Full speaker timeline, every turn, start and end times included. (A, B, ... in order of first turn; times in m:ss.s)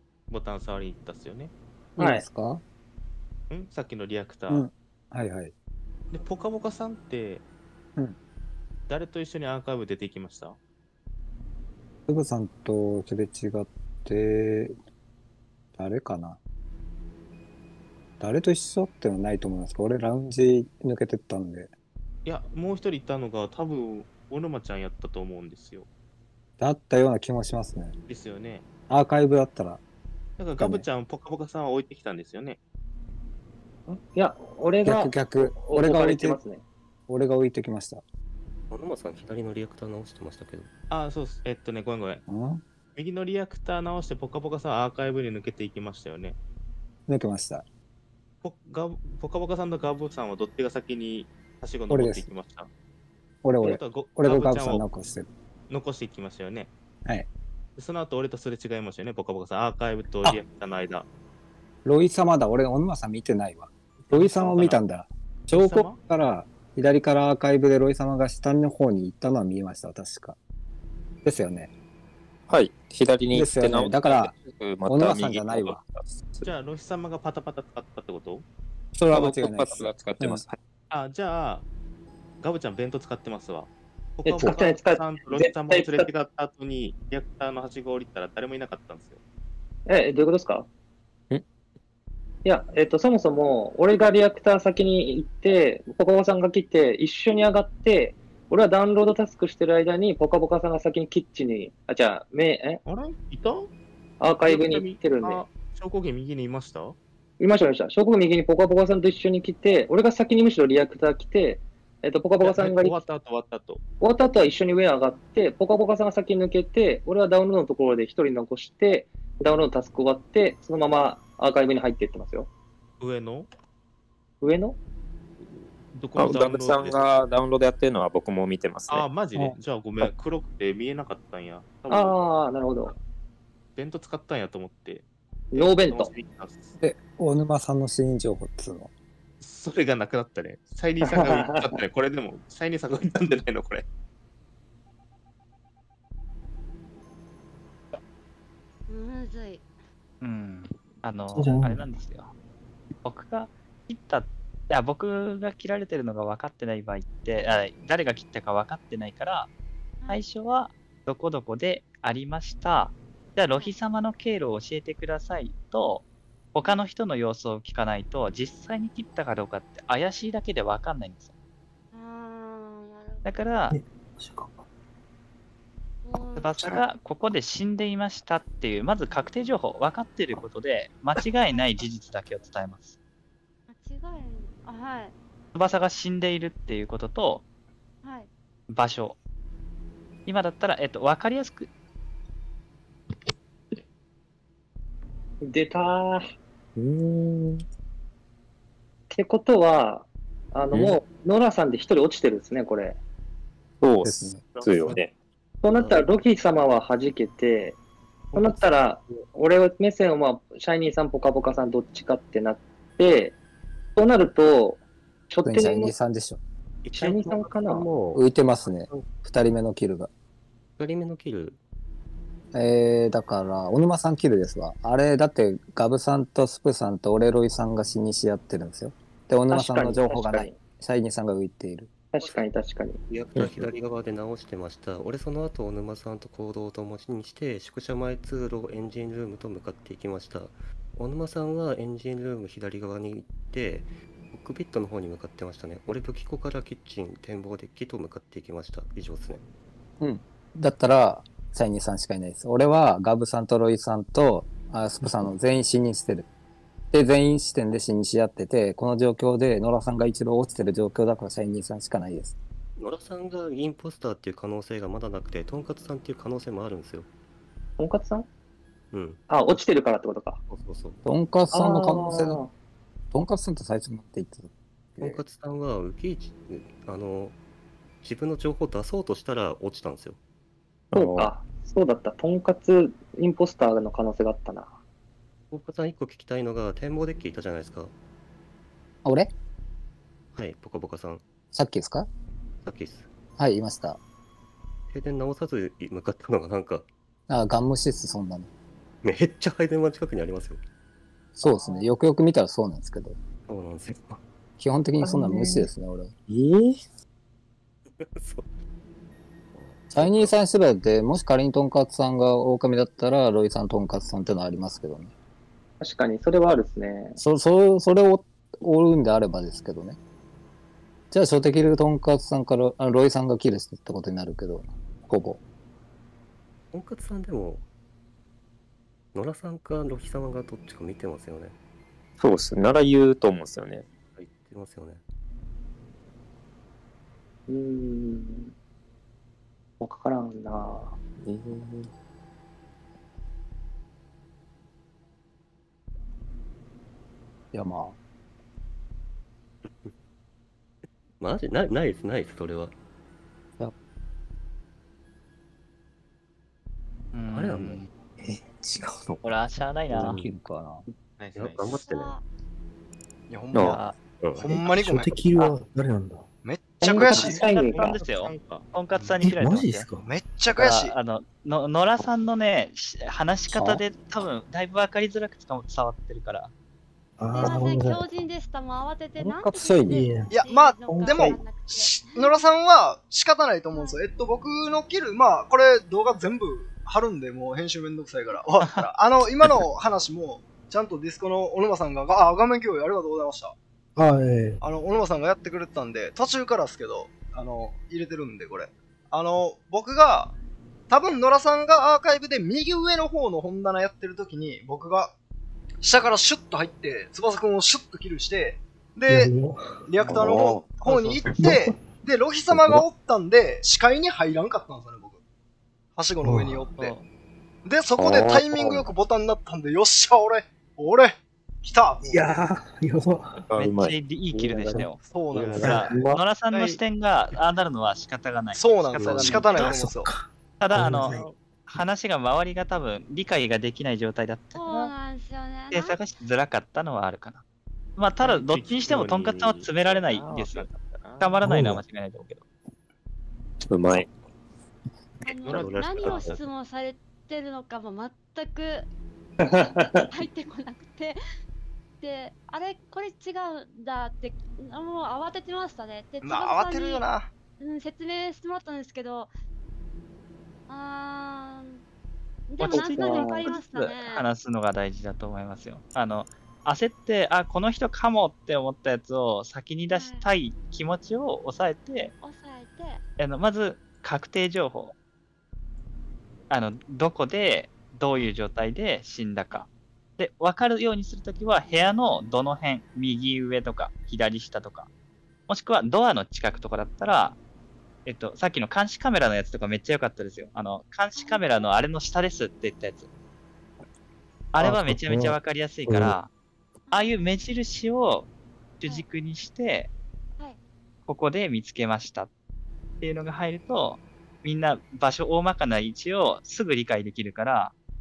0:00.3-0:01.5 A
0:02.0-0:02.6 B
0:02.0-0:02.2 C
0:03.5-0:04.6 A
0:04.5-0:05.5 B
0:06.1-0:07.4 A
0:08.9-0:10.6 A
0:12.1-0:14.7 B
0:15.8-0:16.4 B
0:18.2-0:21.7 B
0:22.2-0:25.9 A
0:26.6-0:27.9 B
0:28.1-0:28.6 A
0:28.9-0:29.8 B
0:30.4-0:32.6 A
0:30.6-0:30.9 B
0:33.9-0:36.6 C
0:34.8-0:36.4 B
0:37.1-0:38.0 B
0:38.7-0:40.7 D
0:40.9-0:42.2 A
0:42.3-0:42.6 B
0:43.0-0:46.4 A
0:47.1-0:47.6 B
0:48.4-0:52.7 A
0:51.9-0:52.3 B
0:53.4-0:55.3 B
0:53.6-0:54.8 A
0:55.7-0:56.7 A
0:57.8-1:01.0 A
1:01.8-1:10.4 B
1:04.0-1:04.8 A
1:05.5-1:06.0 A
1:11.2-1:11.7 B
1:12.5-1:16.5 E
1:13.3-1:14.3 B
1:14.8-1:15.8 B
1:16.4-1:18.4 A
1:18.9-1:20.4 B
1:19.1-1:20.6 E
1:20.9-1:21.6 A
1:22.4-1:29.2 A
1:24.2-1:26.1 C
1:29.8-1:30.7 C
1:32.4-1:42.8 C
1:42.8-1:43.7 A
1:44.2-1:45.4 C
1:44.4-1:47.0 A
1:47.4-1:53.0 C
1:52.4-1:53.8 A
1:54.0-2:02.5 C
2:03.0-2:03.5 A
2:04.4-2:04.8 C
2:05.4-2:07.1 A
2:06.2-2:09.1 E
2:08.9-2:12.2 A
2:11.9-2:12.9 C
2:13.8-2:16.7 A
2:15.5-2:16.1 C
2:16.8-2:18.9 B
2:19.4-2:23.8 A
2:21.0-2:21.8 C
2:28.9-2:29.7 F
2:30.2-2:32.3 G
2:31.3-2:31.8 H
2:33.0-2:39.5 G
2:40.1-2:51.3 G
2:43.5-2:43.8 F
2:51.9-2:53.5 F
2:53.2-2:53.8 G
2:53.7-2:54.6 H
2:56.0-2:56.6 F
2:56.4-3:03.0 G
3:03.7-3:05.1 F
3:05.5-3:07.4 G
3:08.0-3:08.3 F
3:08.7-3:09.2 G
3:10.2-3:11.7 G
3:15.4-3:16.2 C
3:16.8-3:17.6 E
3:19.1-3:23.0 C
3:23.8-3:25.1 E
3:24.0-3:24.4 B
3:25.6-3:27.8 C
3:25.7-3:26.1 D
3:28.3-3:28.9 D
3:28.3-3:33.4 C
3:34.0-3:35.9 C
3:35.4-3:36.4 B
3:36.8-3:37.5 A
3:36.9-3:37.9 C
3:37.1-3:38.2 D
3:38.1-3:40.1 B
3:40.8-3:41.6 D
3:42.5-3:51.9 B
3:49.5-3:50.6 C
3:52.1-3:53.0 C
3:52.2-3:52.4 D
3:53.1-4:09.4 D
4:10.0-4:16.3 B
4:16.9-4:22.4 B
4:22.8-4:27.1 D
4:27.8-4:28.3 C
4:28.9-4:29.7 D
4:29.3-4:30.4 C
4:30.5-4:31.0 D
4:31.0-4:32.4 B
4:31.5-4:32.5 C
4:33.1-4:35.2 B
4:35.0-4:37.4 D
4:38.0-4:40.2 D
4:40.9-4:41.3 E
4:40.9-4:44.8 C
4:45.5-4:47.9 D
4:49.0-4:49.3 B
4:50.3-4:51.2 D
4:51.5-4:52.1 B
4:52.6-4:53.1 D
4:53.4-4:54.0 B
4:54.9-4:56.9 D
4:57.3-4:58.5 B
4:59.0-5:00.6 D
5:01.4-5:03.2 B
5:03.5-5:04.2 D
5:04.6-5:06.2 B
5:05.0-5:05.7 H
5:08.0-5:08.5 D
5:09.5-5:10.3 D
5:09.9-5:15.1 B
5:15.8-5:17.2 C
5:17.2-5:20.0 B
5:21.1-5:25.4 B
5:26.7-5:27.6 D
5:29.1-5:31.6 D
5:32.2-5:33.8 E
5:34.2-5:35.0 D
5:37.5-5:38.5 C
5:39.8-5:41.0 C
5:41.2-5:41.9 E
5:47.5-5:48.0 B
5:49.6-5:49.9 D
5:51.2-5:52.7 D
5:57.1-5:57.9 G
5:57.3-5:57.8 D
5:59.2-6:00.2 G
5:59.9-6:00.8 B
6:01.2-6:01.8 A
6:01.3-6:02.2 D
6:01.8-6:02.2 F
6:03.3-6:05.5 I
6:03.5-6:04.4 D
6:04.4-6:06.2 H
6:06.4-6:07.4 I
6:06.8-6:08.0 C
6:06.9-6:09.9 G
6:07.1-6:07.4 H
6:07.7-6:08.6 A
6:09.2-6:10.1 H
6:10.0-6:10.9 I
6:10.5-6:16.5 G
6:13.5-6:13.8 H
6:17.2-6:18.2 H
6:17.3-6:22.4 F
6:19.3-6:20.0 B
6:19.8-6:21.4 H
6:20.3-6:33.6 I
6:23.7-6:24.0 F
6:34.0-6:34.6 H
6:34.6-6:40.3 I
6:40.9-6:45.1 I
6:45.8-6:49.3 I
6:49.1-6:50.7 H
6:49.8-6:55.2 I
6:50.8-6:51.2 G
6:51.2-6:52.8 H
6:56.0-6:56.9 I
6:56.2-6:56.7 H
6:56.8-6:57.1 G
6:57.6-7:02.1 I
7:02.0-7:03.4 H
7:03.5-7:04.0 E
7:03.5-7:05.0 G
7:05.1-7:05.8 I
7:05.3-7:05.8 A
7:05.5-7:09.7 G
7:05.6-7:06.2 H
7:08.5-7:10.1 I
7:09.0-7:11.3 H
7:10.6-7:14.9 G
7:14.5-7:16.0 F
7:15.7-7:17.4 G
7:18.0-7:22.4 G
7:18.2-7:21.4 A
7:21.4-7:21.8 H
7:23.6-7:24.1 E
7:25.2-7:28.9 F
7:25.4-7:26.4 D
7:25.4-7:26.3 A
7:29.4-7:30.0 C
7:29.9-7:31.2 F
7:32.0-7:37.0 F
7:36.2-7:37.3 I
7:37.6-7:39.3 F
7:40.7-7:41.8 F
7:42.5-7:44.2 F
7:42.6-7:52.1 G
7:42.6-7:43.6 C
7:49.9-7:50.3 F
7:52.2-7:53.0 F
7:53.2-7:54.9 G
7:56.5-8:04.9 G
8:05.5-8:07.4 G
8:08.0-8:13.1 G
8:11.2-8:11.6 F
8:14.5-8:16.3 G
8:14.6-8:15.3 H
8:16.9-8:17.2 F
8:16.9-8:18.3 G
8:18.8-8:19.9 G
8:21.1-8:22.3 G
8:23.0-8:27.7 G